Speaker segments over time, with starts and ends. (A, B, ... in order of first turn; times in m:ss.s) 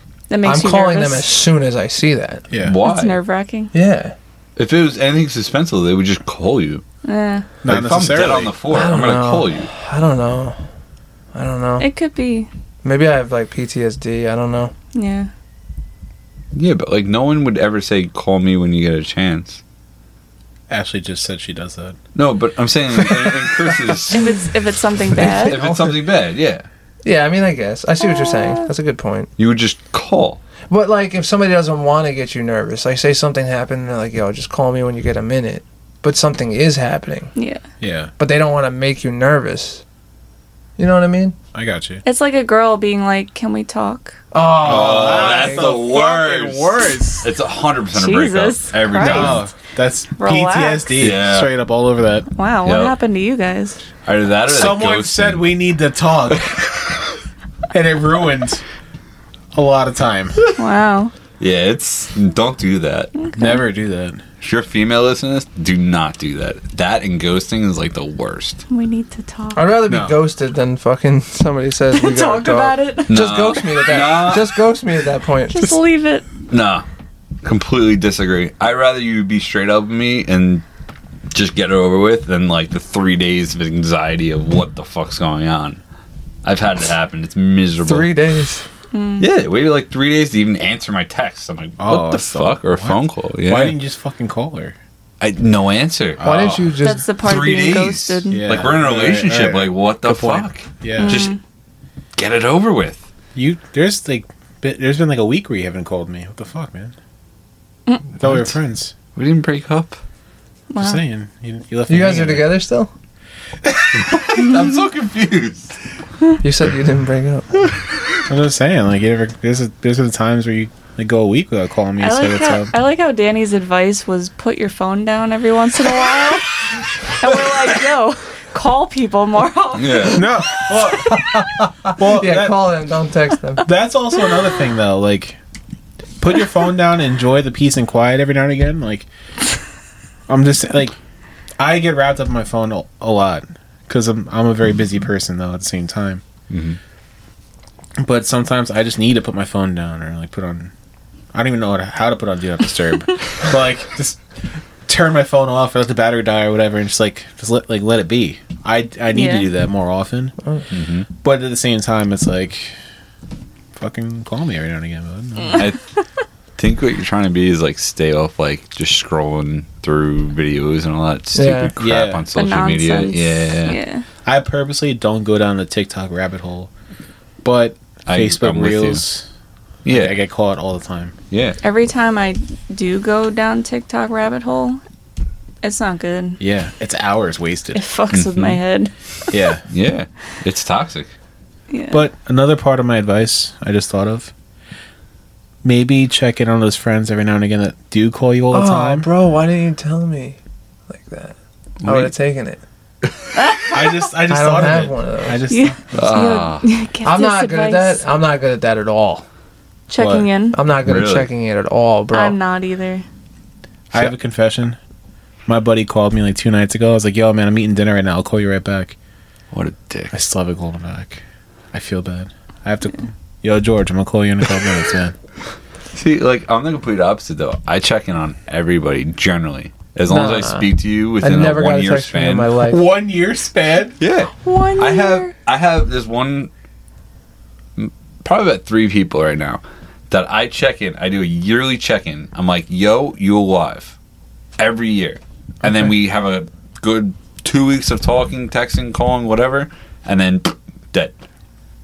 0:00.3-0:01.3 A
0:00.4-0:02.4 B
0:02.5-0:02.8 C
0:02.6-0:03.2 D
0:02.8-0:03.7 A
0:03.7-0:04.1 B
0:04.6-0:06.8 D
0:07.0-0:07.5 A
0:07.6-0:08.5 C
0:07.6-0:09.7 D
0:08.7-0:10.6 B
0:11.3-0:11.9 B
0:11.8-0:12.5 A
0:12.8-0:14.7 B
0:14.9-0:15.3 A
0:16.5-0:19.6 D
0:20.7-0:22.0 C
0:22.1-0:24.2 D
0:24.1-0:25.6 A
0:25.2-0:25.9 B
0:25.4-0:26.6 D
0:27.0-0:29.3 B
0:28.0-0:28.7 A
0:29.4-0:30.4 D
0:30.7-0:37.3 B
0:37.4-0:37.6 A
0:37.8-0:38.1 C
0:38.2-0:39.8 B
0:40.8-0:41.4 B
0:41.5-0:42.0 C
0:42.0-0:44.2 A
0:44.3-0:45.7 B
0:44.6-0:47.3 C
0:44.6-0:49.4 D
0:47.9-0:49.4 A
0:49.0-0:52.3 C
0:50.2-0:51.1 A
0:51.0-0:51.5 D
0:52.3-0:53.8 A
0:52.6-0:53.0 D
0:54.0-0:55.4 D
0:54.5-0:56.5 C
0:57.7-0:58.6 C
0:59.5-1:00.4 C
1:00.6-1:01.1 A
1:01.4-1:03.1 D
1:03.1-1:03.6 A
1:03.3-1:04.2 C
1:04.4-1:08.6 D
1:08.7-1:09.7 A
1:09.5-1:15.8 B
1:09.9-1:10.2 C
1:11.9-1:13.3 A
1:13.1-1:14.6 D
1:15.5-1:16.2 A
1:16.5-1:16.8 D
1:17.4-1:20.6 D
1:21.3-1:25.8 D
1:26.4-1:28.1 D
1:27.8-1:28.6 B
1:28.9-1:29.2 A
1:29.2-1:33.8 D
1:31.8-1:34.8 C
1:35.2-1:41.3 D
1:36.2-1:36.6 C
1:36.2-1:37.1 B
1:36.8-1:38.5 A
1:38.3-1:41.3 C
1:41.0-1:41.4 A
1:42.2-1:43.0 D
1:43.3-1:46.9 C
1:48.2-1:48.9 C
1:49.1-1:50.0 D
1:50.7-1:51.0 A
1:50.8-1:52.6 C
1:51.9-1:52.9 B
1:53.9-1:55.8 D
1:56.4-1:57.5 B
1:58.3-2:02.7 C
2:02.0-2:10.4 A
2:09.8-2:10.2 D
2:10.1-2:11.4 C
2:10.9-2:13.7 B
2:11.9-2:12.7 C
2:13.6-2:15.4 C
2:16.2-2:19.1 C
2:20.3-2:20.9 C
2:21.6-2:26.2 C
2:26.5-2:26.8 D
2:28.0-2:30.7 C
2:31.3-2:34.2 C
2:34.8-2:40.3 C
2:39.1-2:39.5 A
2:40.7-2:41.1 D
2:41.2-2:42.7 C
2:43.8-2:45.6 C
2:45.5-2:45.8 D
2:46.6-2:53.8 D
2:51.3-2:51.7 B
2:51.8-2:52.3 C
2:52.3-2:54.0 A
2:54.2-2:56.7 C
2:57.4-2:59.3 C
2:58.0-2:59.0 D
2:59.8-3:00.2 D
2:59.9-3:01.1 C
3:01.3-3:01.6 D
3:01.6-3:04.8 A
3:05.6-3:06.4 A
3:06.4-3:07.8 C
3:07.7-3:08.9 A
3:08.1-3:08.6 D
3:09.3-3:09.6 C
3:09.7-3:11.1 D
3:11.7-3:12.0 A
3:11.9-3:14.3 C
3:15.6-3:19.1 C
3:18.5-3:20.4 B
3:20.9-3:22.6 B
3:21.8-3:22.1 D
3:23.4-3:24.0 A
3:23.7-3:26.1 C
3:24.3-3:25.4 B
3:25.5-3:28.0 A
3:25.9-3:26.7 D
3:27.0-3:29.2 B
3:29.9-3:30.6 A
3:30.0-3:30.3 C
3:30.5-3:32.4 B
3:30.8-3:31.3 D
3:32.1-3:33.0 A
3:33.9-3:34.8 C
3:35.5-3:39.0 C
3:39.5-3:40.1 D
3:40.1-3:41.2 C
3:41.7-3:45.1 C
3:45.9-3:52.5 D
3:50.1-3:52.8 B
3:52.6-3:54.0 C
3:54.0-3:56.5 D
3:54.4-3:55.3 A
3:57.8-4:04.0 D
4:04.6-4:11.2 D